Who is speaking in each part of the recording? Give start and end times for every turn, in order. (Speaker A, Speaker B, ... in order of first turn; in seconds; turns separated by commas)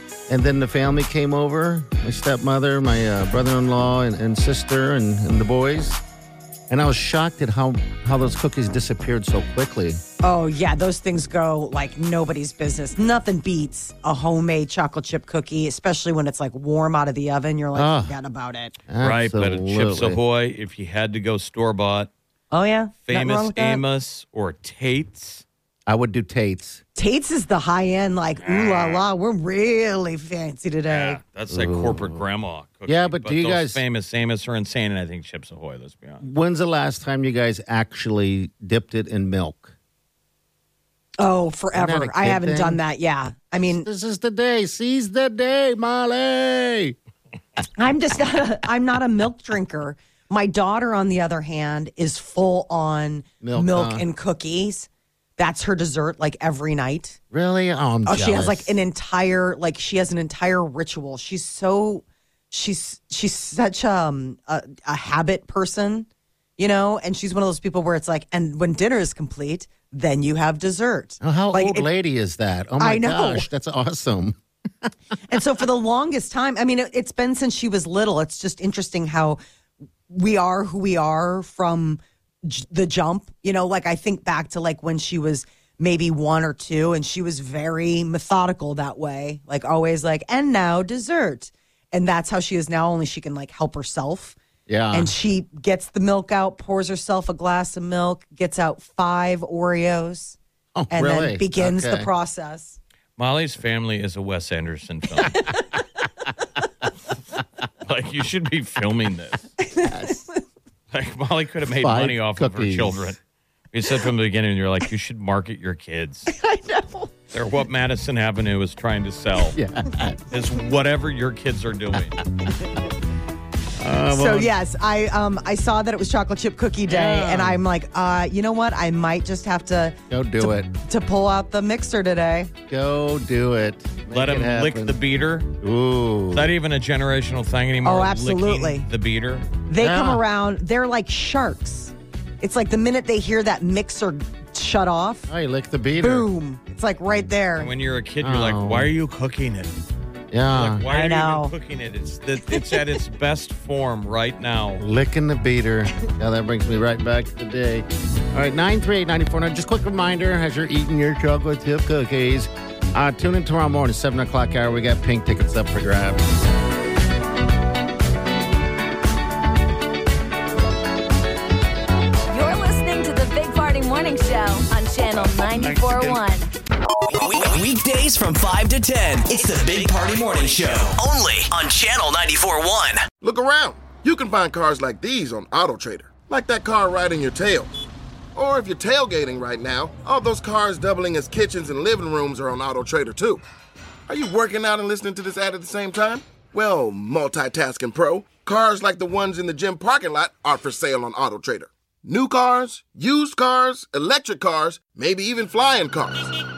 Speaker A: 0.3-6.0, Speaker A: 6.7-10.0, Speaker B: 10.2-18.8, Speaker A: 17.8-18.1, Speaker A: 18.9-20.2, Speaker C: 19.0-22.1, Speaker B: 22.5-23.8, Speaker C: 23.1-25.4, Speaker A: 25.9-26.8, Speaker B: 27.0-31.2, Speaker C: 28.4-29.0, Speaker C: 30.9-36.2, Speaker A: 31.5-32.2, Speaker A: 32.9-33.8, Speaker A: 36.2-39.7, Speaker B: 41.2-43.9, Speaker A: 41.8-42.8, Speaker A: 43.6-47.0, Speaker B: 47.8-57.2, Speaker A: 53.4-54.0, Speaker A: 57.3-58.7, Speaker B: 58.1-66.1, Speaker B: 66.6-71.9, Speaker A: 71.2-74.9, Speaker B: 72.8-73.5, Speaker B: 75.3-79.4, Speaker B: 80.1-94.4, Speaker A: 94.7-95.1, Speaker B: 94.9-100.4, Speaker A: 100.8-102.1, Speaker B: 100.9-102.8, Speaker C: 103.2-105.5, Speaker C: 107.8-109.5, Speaker B: 109.6-110.4, Speaker A: 109.9-110.2, Speaker C: 110.9-113.2, Speaker A: 111.8-113.2, Speaker C: 113.7-116.3, Speaker B: 116.3-117.1, Speaker C: 117.3-119.6, Speaker A: 119.5-120.2, Speaker C: 120.3-122.2, Speaker A: 123.8-124.5, Speaker B: 124.1-132.5, Speaker A: 126.9-127.6, Speaker A: 130.1-130.7, Speaker A: 132.7-135.0, Speaker C: 134.1-135.5, Speaker A: 135.6-136.5, Speaker C: 136.3-139.5, Speaker B: 137.8-138.9, Speaker B: 139.7-145.3, Speaker A: 139.8-140.2, Speaker A: 145.3-146.3, Speaker B: 146.0-147.7, Speaker C: 147.6-149.7, Speaker A: 148.2-148.9, Speaker A: 150.3-150.8, Speaker C: 150.5-154.8, Speaker B: 150.9-151.5, Speaker B: 152.5-152.8, Speaker A: 154.8-166.2, Speaker D: 172.3-176.5, Speaker E: 177.1-183.0, Speaker F: 183.2-187.7, Speaker F: 188.3-193.4, Speaker F: 194.1-206.3